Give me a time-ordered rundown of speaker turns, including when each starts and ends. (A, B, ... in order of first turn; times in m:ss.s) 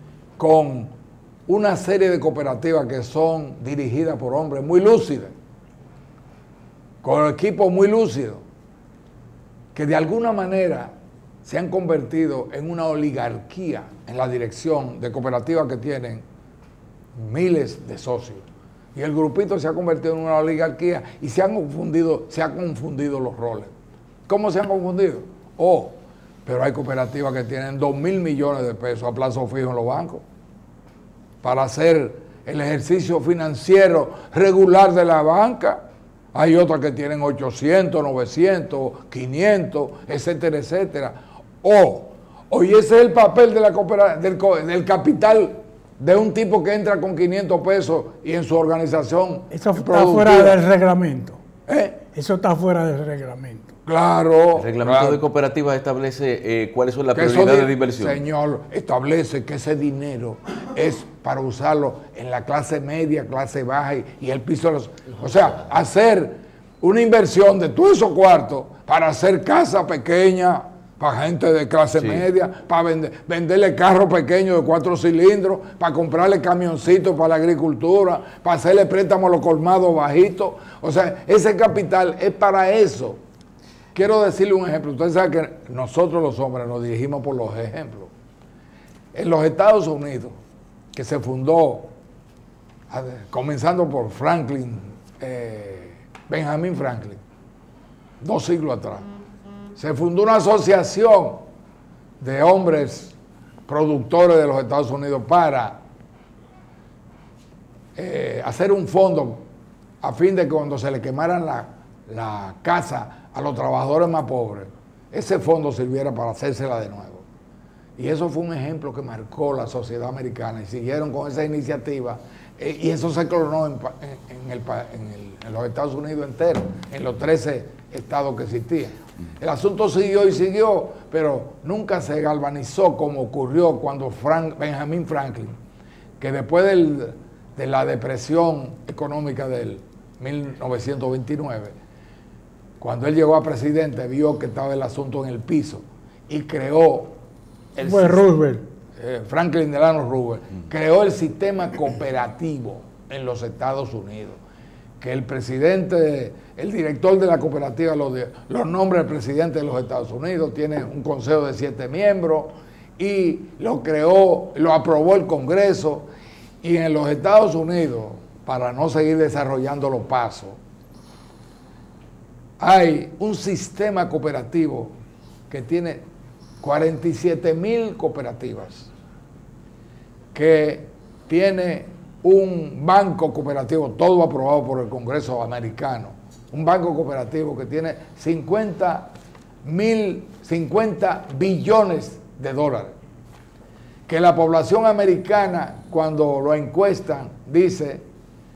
0:00.4-0:00.9 A
0:01.5-0:05.3 A
0:07.0-0:08.4 A
0:09.7-0:10.9 A
0:11.4-0:16.2 A
0:17.2-0:18.4 A
0:18.9-0:23.7 A
0:24.3-0:30.2 A
0:31.4-0:35.8 A
0:36.3-0:50.6 A
0:49.5-0:51.4 B
0:51.7-0:52.0 A
0:52.1-0:53.7 B
0:53.9-0:55.2 A
0:54.5-0:58.2 C
0:57.1-1:23.2 A
1:23.9-1:28.1 A
1:29.1-1:30.4 A
1:30.9-1:31.9 A
1:32.9-1:37.2 A
1:38.2-1:39.1 A
1:39.8-1:41.4 A
1:42.2-1:43.1 A
1:43.7-1:45.8 A
1:48.0-1:49.4 A
1:50.0-1:57.2 A
1:58.0-2:15.6 A
2:16.2-2:21.8 A
2:22.8-2:27.2 A
2:27.8-2:28.4 A
2:27.8-2:28.6 B
2:29.0-2:34.4 A
2:35.0-2:46.1 A
2:46.6-2:50.6 A
2:52.6-2:54.9 A
2:55.5-2:56.0 A
2:56.6-2:58.9 A
3:00.3-3:09.1 A
3:09.6-3:13.0 A
3:14.1-3:18.0 A